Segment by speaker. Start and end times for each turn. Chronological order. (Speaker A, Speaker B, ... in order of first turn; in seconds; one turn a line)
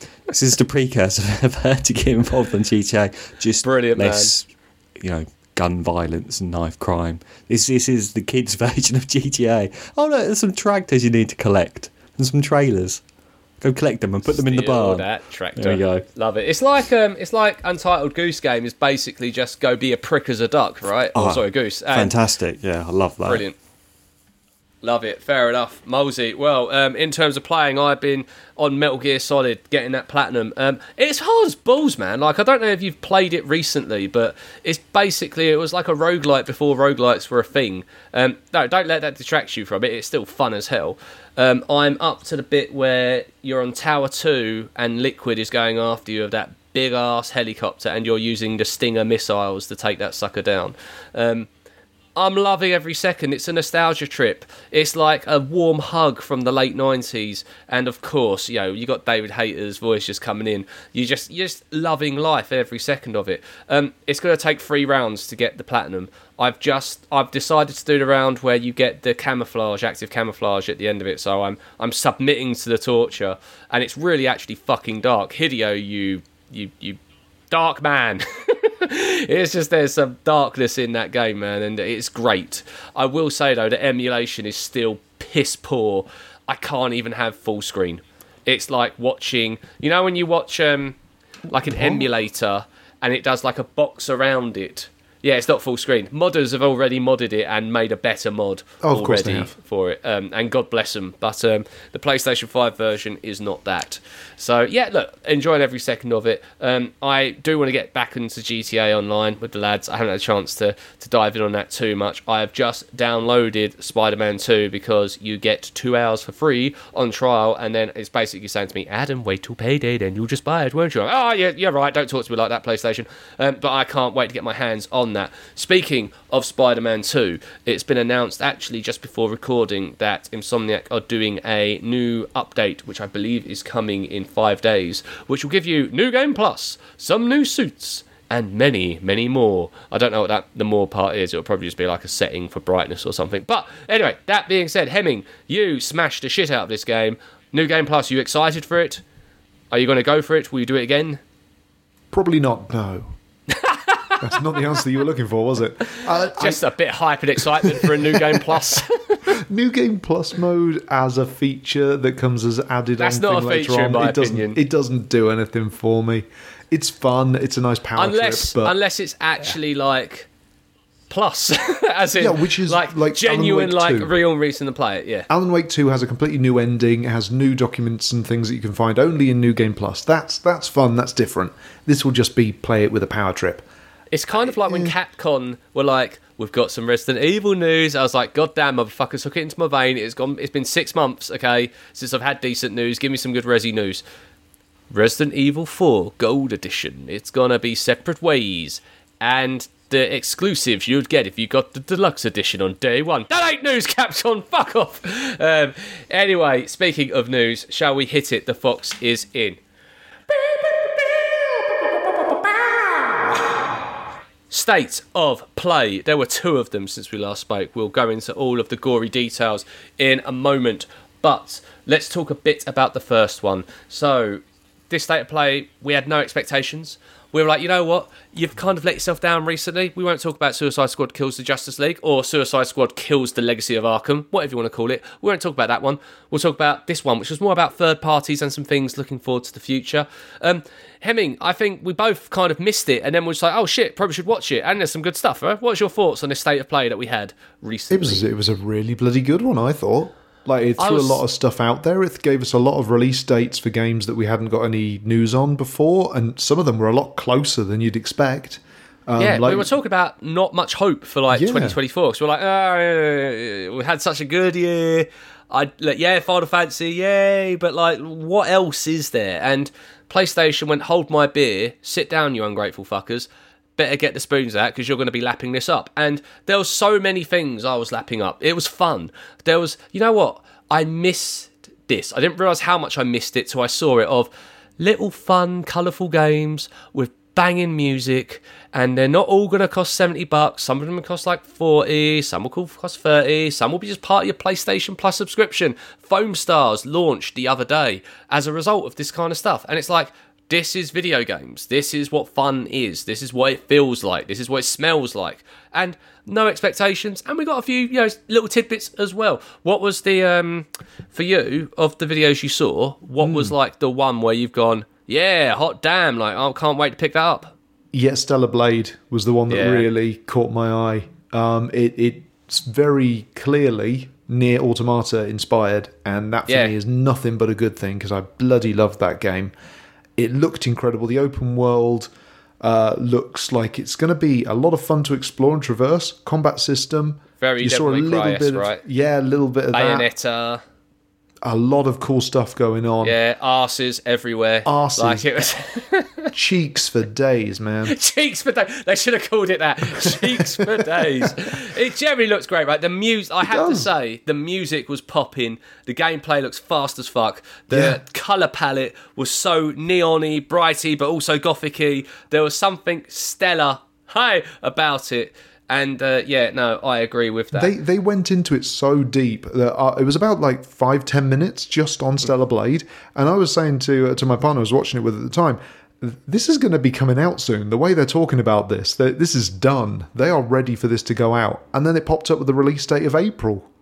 Speaker A: 0.3-4.5
Speaker B: 3.6-4.3
Speaker A: 5.0-13.0
Speaker A: 13.6-16.0
Speaker B: 14.4-22.1
Speaker A: 21.1-23.4
Speaker B: 23.2-23.5
Speaker B: 24.8-51.5
Speaker B: 52.1-77.0
Speaker B: 77.5-149.0
Speaker C: 91.7-92.0
Speaker C: 98.8-99.5
Speaker B: 149.7-151.2
Speaker C: 152.1-153.1
Speaker B: 153.5-154.6
Speaker C: 154.2-156.6
Speaker B: 156.3-159.3
Speaker C: 157.5-158.8
Speaker C: 159.3-168.7
Speaker B: 163.0-164.6
Speaker B: 168.0-170.3
Speaker B: 171.1-175.3
Speaker C: 172.2-174.2
Speaker C: 175.3-183.7
Speaker B: 184.1-194.0
Speaker C: 184.5-184.9
Speaker B: 194.9-209.6
Speaker B: 210.3-213.6
Speaker B: 214.5-248.3
Speaker C: 247.9-259.7
Speaker B: 250.8-251.2
Speaker B: 259.2-317.5
Speaker C: 261.3-261.8
Speaker C: 313.2-313.5
Speaker C: 317.9-329.5
Speaker B: 319.5-319.9
Speaker B: 326.5-326.7
Speaker C: 330.2-340.1
Speaker B: 337.4-338.8
Speaker B: 339.7-340.6
Speaker C: 341.4-343.1
Speaker B: 343.0-346.3
Speaker C: 344.6-345.2
Speaker C: 346.3-347.9
Speaker B: 347.9-367.7
Speaker C: 350.0-351.3
Speaker C: 353.5-353.9
Speaker C: 357.7-358.0
Speaker C: 367.5-383.7